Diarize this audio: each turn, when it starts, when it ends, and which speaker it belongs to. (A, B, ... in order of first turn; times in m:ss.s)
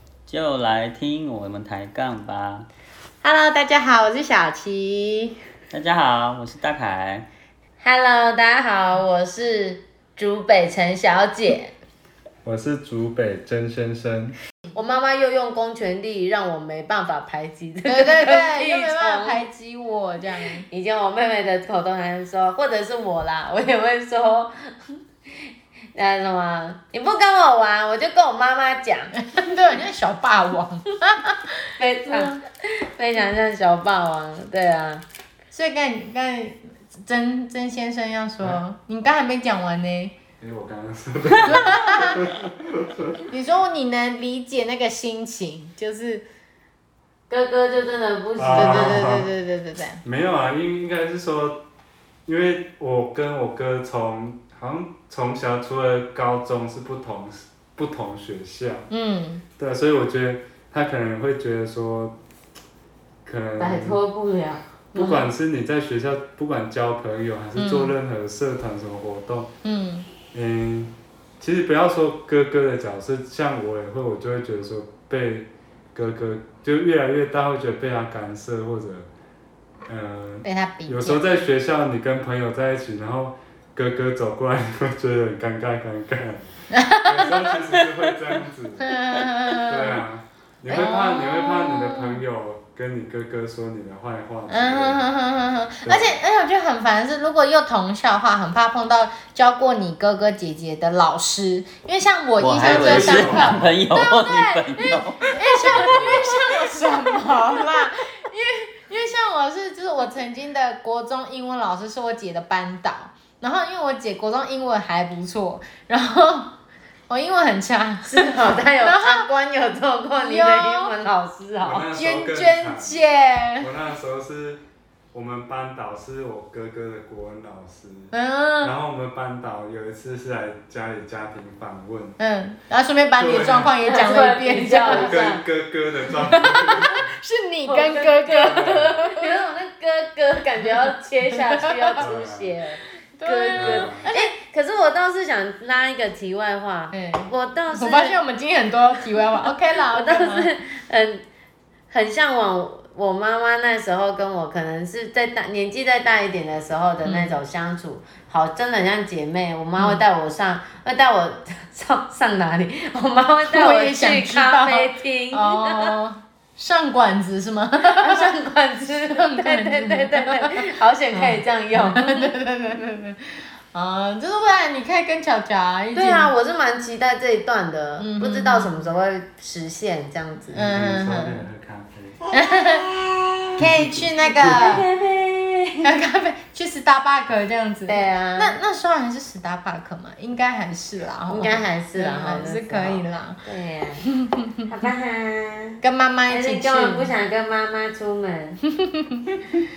0:00.3-0:02.6 A
0:03.2-0:05.4 B
0:05.7-0:07.2 A
0:07.8-0:11.7 C
0:12.4-0:14.4 D
0:14.7-0:19.4 C
0:17.8-0:20.6 B
0:20.6-0:25.0 C
0:25.9-0:29.1 C
0:29.2-0:31.5 B
0:31.8-0:32.4 C
0:32.0-0:32.4 B
0:32.9-0:35.0 C
0:35.5-0:40.1 B
0:40.4-0:43.2 D
0:41.4-0:42.2 B
0:43.3-0:46.2 B
0:47.3-0:49.1 C
0:48.4-0:49.3 D
0:48.5-0:50.0 B
0:50.0-0:51.6 D
0:52.2-0:58.9 D
0:58.9-0:59.4 B
0:59.6-1:02.2 D
1:03.2-1:04.0 D
1:03.6-1:05.2 C
1:04.9-1:09.5 D
1:07.6-1:07.9 B
1:09.6-1:10.1 B
1:10.3-1:19.1 D
1:19.9-1:28.9 D
1:20.4-1:21.2 B
1:26.7-1:27.5 B
1:28.8-1:30.0 B
1:29.5-1:35.0 D
1:30.7-1:32.2 B
1:30.7-1:31.0 C
1:34.5-1:56.5 B
1:35.8-1:36.2 D
1:42.4-1:46.2 A
1:42.6-1:43.6 D
1:57.1-1:59.3 B
1:58.0-2:01.9 C
2:00.2-2:00.9 B
2:01.6-2:03.0 D
2:01.9-2:03.7 B
2:03.6-2:04.6 D
2:05.1-2:12.2 D
2:08.1-2:08.7 B
2:12.2-2:15.2 B
2:13.2-2:13.7 D
2:13.8-2:15.4 C
2:14.8-2:17.0 D
2:16.2-2:19.4 B
2:17.6-2:28.2 C
2:18.3-2:19.0 D
2:22.0-2:22.6 D
2:23.2-2:24.3 B
2:23.5-2:24.1 D
2:26.9-2:30.5 B
2:29.0-2:31.2 C
2:31.9-2:46.0 C
2:37.0-2:37.4 B
2:39.8-2:40.0 B
2:43.5-2:48.3 B
2:47.8-2:52.3 C
2:49.1-2:50.5 B
2:51.1-2:53.2 B
2:53.7-2:56.3 B
2:55.9-3:00.6 C
2:58.0-2:58.8 B
3:00.5-3:02.2 D
3:00.5-3:01.4 B
3:02.3-3:02.9 B
3:03.6-3:04.7 D
3:03.6-3:04.8 B
3:04.4-3:05.9 C
3:05.8-3:13.4 B
3:07.8-3:08.6 C
3:11.3-3:14.0 C
3:14.1-3:14.5 B
3:14.6-3:18.6 C
3:15.8-3:17.1 B
3:18.8-3:19.4 B